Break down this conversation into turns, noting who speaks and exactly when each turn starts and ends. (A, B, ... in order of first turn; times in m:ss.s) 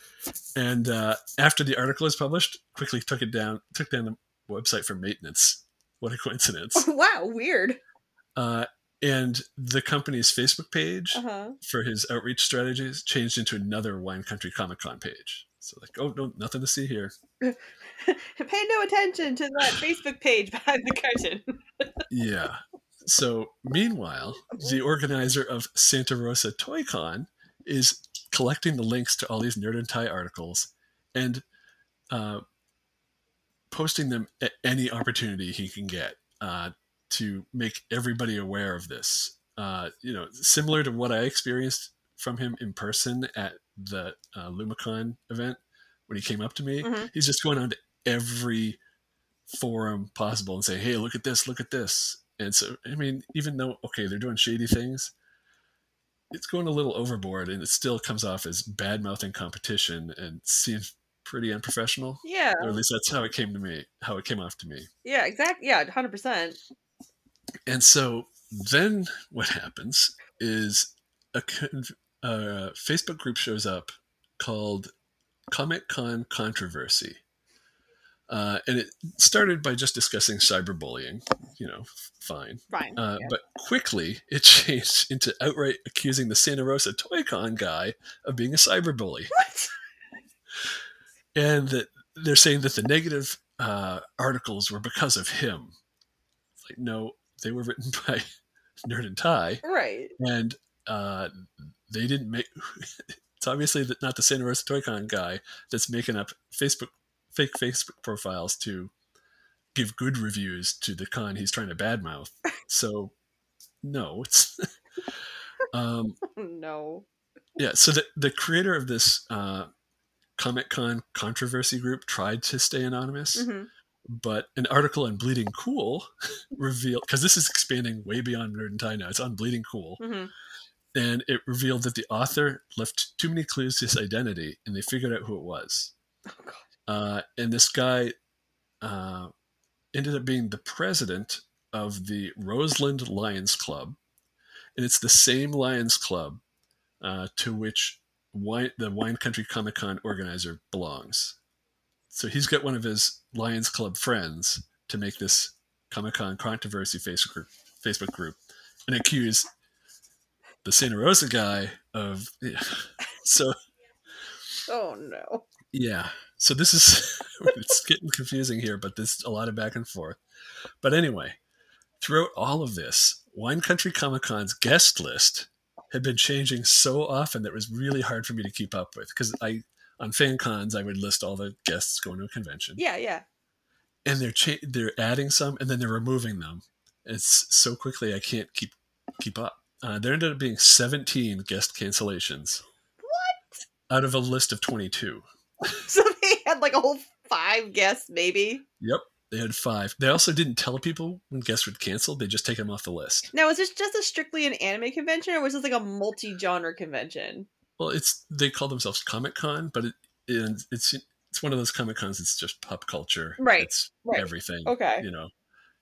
0:00.6-0:06.9 A
0:06.8-0:07.8 B
0:08.4-0:17.1 A
0:11.1-0:11.6 B
0:17.4-0:21.8 B
0:22.1-0:31.4 A
0:32.1-0:32.4 A
0:33.7-0:48.8 A
0:46.8-0:47.1 B
0:49.5-0:55.1 A
0:56.3-1:04.9 A
1:02.2-1:02.8 B
1:05.0-1:06.6 B
1:07.7-1:14.9 A
1:15.5-1:17.2 A
1:18.3-1:29.3 A
1:22.7-1:23.3 B
1:29.3-1:29.7 B
1:31.4-1:35.8 A
1:36.6-1:38.3 A
1:38.8-1:39.6 A
1:39.6-1:40.1 B
1:40.2-1:48.9 A
1:49.7-1:53.1 A
1:53.8-1:54.7 A
1:55.7-1:56.2 A
1:56.3-1:57.1 B
1:57.6-1:59.7 A
2:00.4-2:03.5 A
2:03.4-2:03.7 B
2:04.1-2:10.0 A
2:10.0-2:10.3 B
2:11.0-2:15.9 A
2:16.3-2:16.6 B
2:16.9-2:18.1 A
2:18.8-2:19.3 A
2:19.9-2:24.0 A
2:24.8-2:26.4 A
2:27.0-2:31.4 A
2:32.1-2:39.5 A
2:40.6-2:43.6 A
2:44.7-2:45.5 B
2:45.7-2:50.2 A
2:50.8-2:51.4 A
2:52.0-3:02.8 A
3:02.8-3:03.2 B
3:04.0-3:12.6 A
3:13.0-3:13.6 B
3:13.9-3:15.8 A
3:15.8-3:18.6 B
3:18.8-3:23.3 A
3:23.3-3:27.5 B
3:27.8-3:35.3 A
3:33.4-3:35.0 B